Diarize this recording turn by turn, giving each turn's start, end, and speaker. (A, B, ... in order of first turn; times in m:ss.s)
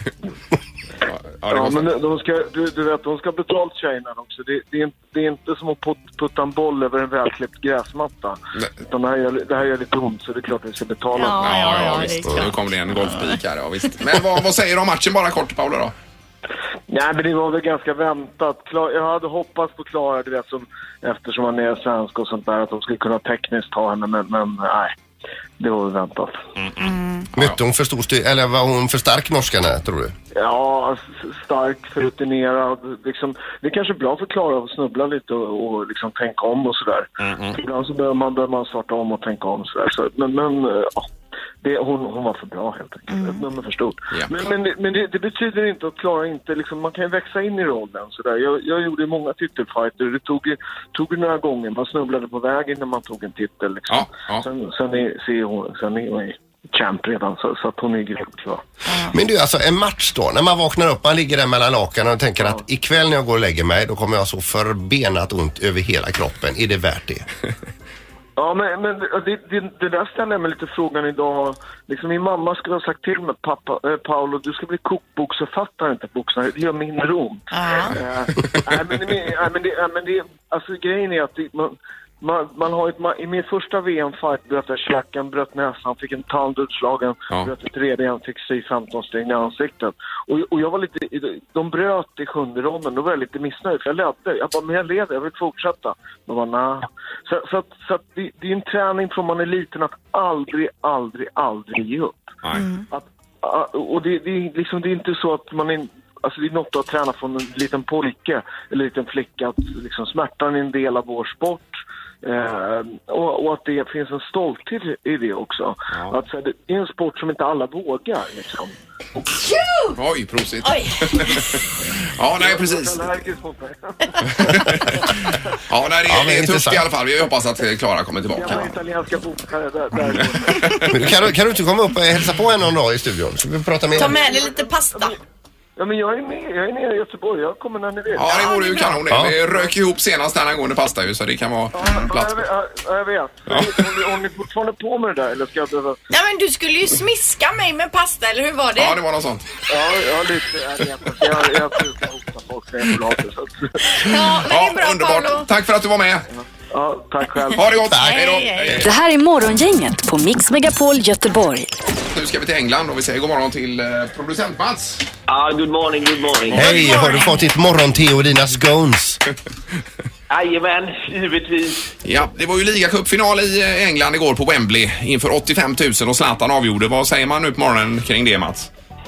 0:01.0-0:01.8 A
0:01.5-0:11.5 B
0:11.2-0:13.4 C
0:11.4-0:15.9 A
0:16.9-0:24.9 B
0:25.6-0:26.4 B
0:26.6-0:27.6 A
0:27.4-0:30.1 D
0:30.3-0:41.1 B
0:37.2-0:37.6 A
0:41.6-0:58.6 B
0:43.1-0:43.4 C
0:53.9-0:54.4 A
0:59.1-1:07.3 D
1:08.4-1:42.3 B
1:17.5-1:18.0 C
1:42.6-1:42.8 C
1:42.9-1:51.7 B
1:52.2-1:58.8 B
1:59.4-1:59.9 C
2:00.0-2:03.2 A
2:00.6-2:01.3 C
2:02.3-2:04.5 B
2:04.2-2:08.6 A
2:06.1-2:06.8 D
2:08.3-2:10.9 B
2:10.5-2:10.9 A
2:10.9-2:14.2 D
2:14.0-2:15.2 B
2:14.0-2:15.2 C
2:15.8-2:18.4 B
2:18.2-2:22.4 A
2:18.3-2:18.9 C
2:19.1-2:19.4 D
2:19.4-2:19.7 B
2:21.7-2:26.0 B
2:23.5-2:23.8 A
2:26.1-2:29.0 C
2:28.8-2:29.4 A
2:29.7-2:34.1 B
2:33.8-2:35.5 C
2:34.0-2:36.3 A
2:36.3-2:37.7 B
2:37.6-2:38.9 A
2:37.9-2:38.2 D
2:38.0-2:38.9 C
2:38.8-2:41.7 E
2:42.1-2:45.1 A
2:45.3-2:46.7 F
2:46.5-2:49.2 D
2:46.6-2:47.4 C
2:50.3-2:51.9 F
2:52.0-2:58.7 A